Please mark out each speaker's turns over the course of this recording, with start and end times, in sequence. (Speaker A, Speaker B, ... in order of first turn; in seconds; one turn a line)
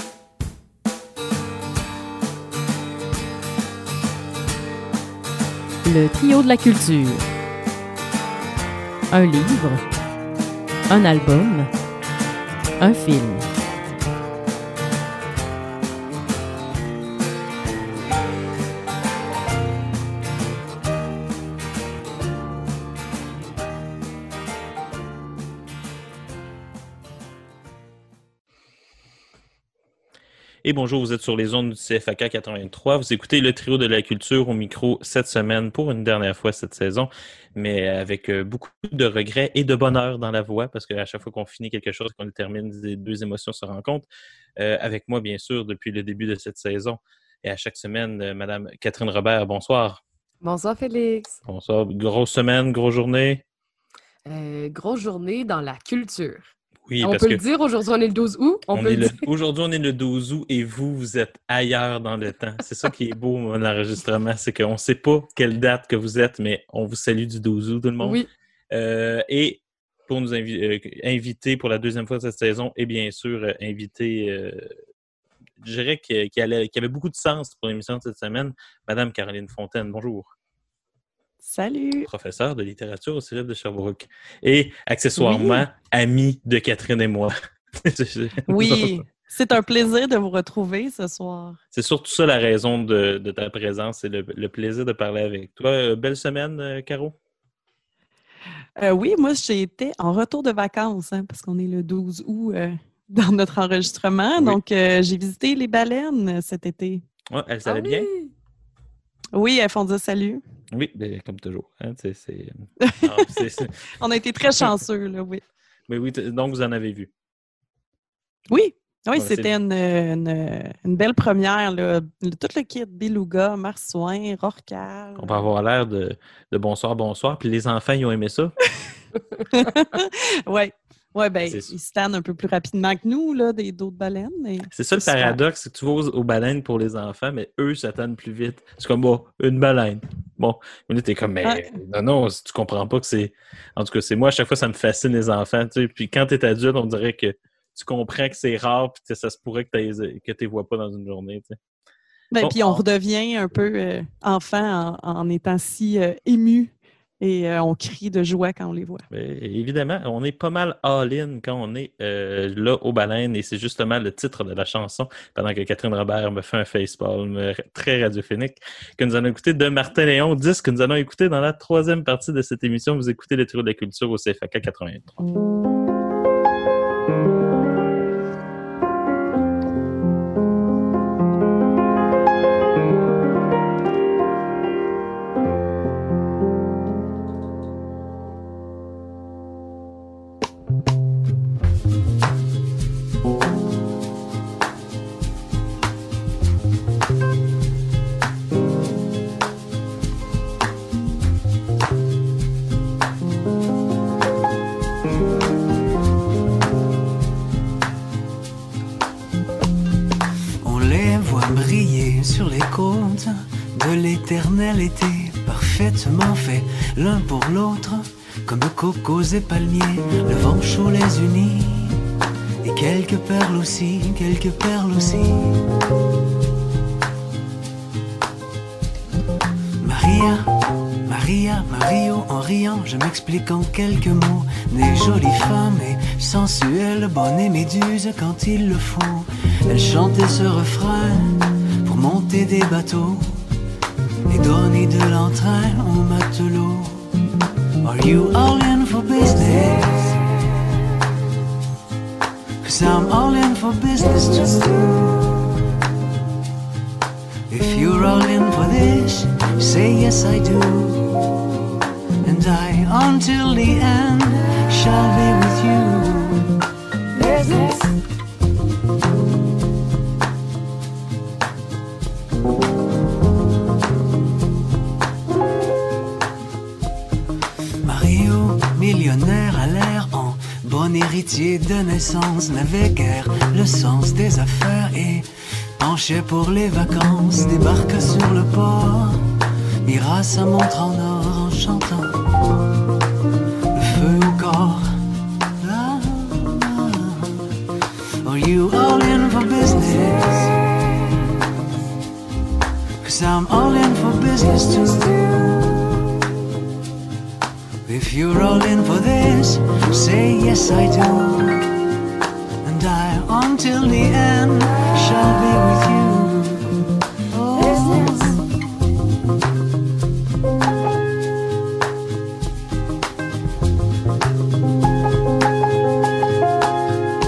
Speaker A: 5.8-7.2
Speaker A: 9.1-9.8
Speaker A: 10.9-11.7
Speaker A: 12.8-13.5
Speaker B: 30.6-44.1
Speaker B: 44.6-50.0
Speaker C: 50.4-51.3
Speaker B: 51.5-53.4
Speaker C: 54.2-56.5
Speaker B: 56.9-57.4
Speaker C: 57.0-59.3
Speaker B: 58.7-68.2
Speaker C: 68.0-68.3
Speaker B: 68.7-74.7
Speaker B: 75.6-80.3
Speaker D: 81.4-82.1
Speaker B: 82.0-89.0
Speaker D: 85.2-85.7
Speaker D: 88.5-91.6
Speaker B: 91.7-97.2
Speaker D: 98.8-107.0
Speaker B: 107.3-108.1
Speaker C: 107.7-108.3
Speaker D: 109.3-110.4
Speaker B: 110.7-113.7
Speaker D: 112.8-113.2
Speaker D: 114.0-115.4
Speaker B: 115.9-117.1
Speaker D: 118.5-125.5
Speaker B: 119.1-119.5
Speaker B: 125.2-128.5
Speaker D: 129.5-135.4
Speaker B: 131.4-131.7
Speaker B: 134.7-151.6
Speaker D: 141.4-141.7
Speaker D: 152.3-159.0
Speaker B: 152.4-152.8
Speaker B: 159.1-175.2
Speaker E: 210.6-222.0
Speaker E: 222.6-225.6
Speaker E: 229.8-230.5
Speaker E: 231.1-243.4
Speaker E: 244.3-247.0
Speaker E: 247.8-250.1
Speaker E: 252.6-254.9
Speaker E: 257.5-261.2
Speaker E: 262.2-266.5
Speaker E: 277.8-289.3
Speaker E: 289.8-292.2
Speaker E: 293.7-295.0
Speaker E: 295.6-297.4
Speaker E: 298.2-300.6
Speaker E: 303.0-305.7
Speaker E: 307.8-311.6
Speaker E: 312.6-316.7
Speaker E: 317.3-318.4